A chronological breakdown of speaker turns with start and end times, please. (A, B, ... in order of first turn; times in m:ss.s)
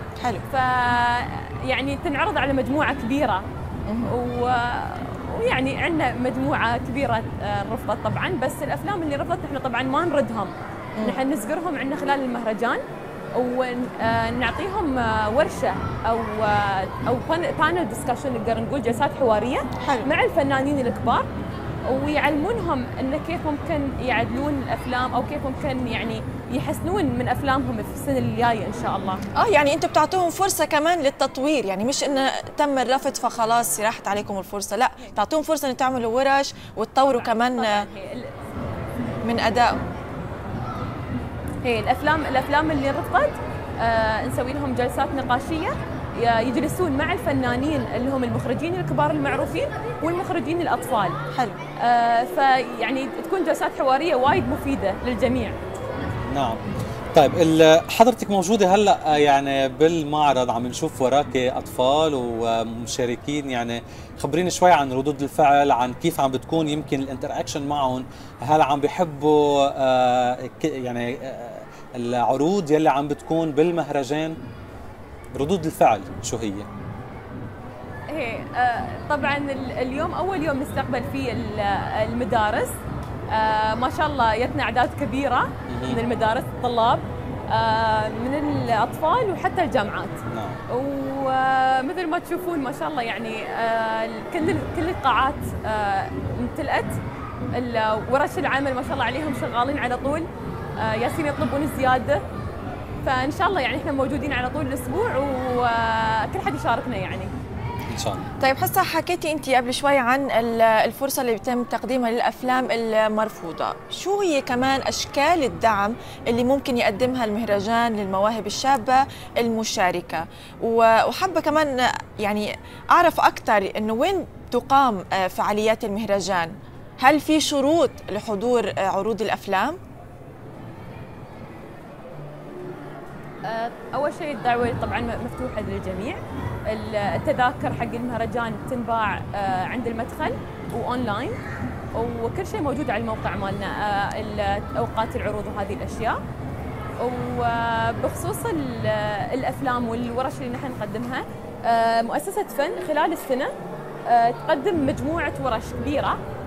0:00.2-0:00.4 A
0:00.5-0:03.5 B
0:03.9-0:04.1 A
0:04.1-0:12.8 B
0:11.0-0:11.2 A
0:13.4-0:21.3 B
0:19.8-0:20.1 A
0:21.9-0:29.2 B
0:29.3-0:37.9 A
0:37.1-0:38.3 B
0:39.2-0:39.8 A
0:41.6-0:51.2 B
0:51.3-0:51.6 A
0:51.8-0:55.6 B
0:56.3-0:56.6 C
0:57.1-1:14.4 C
1:15.4-1:16.7 C
1:18.1-1:22.7 B
1:23.3-1:30.2 B
1:25.7-1:26.0 C
1:30.3-1:30.6 C
1:30.7-1:37.0 B
1:37.5-1:40.3 B
1:40.8-1:42.2 B
1:43.0-1:47.3 B
1:47.9-1:48.3 C
1:48.4-2:09.8 A
2:13.4-2:21.4 B
2:21.9-2:26.2 B
2:27.0-2:33.5 B
2:34.1-2:36.2 B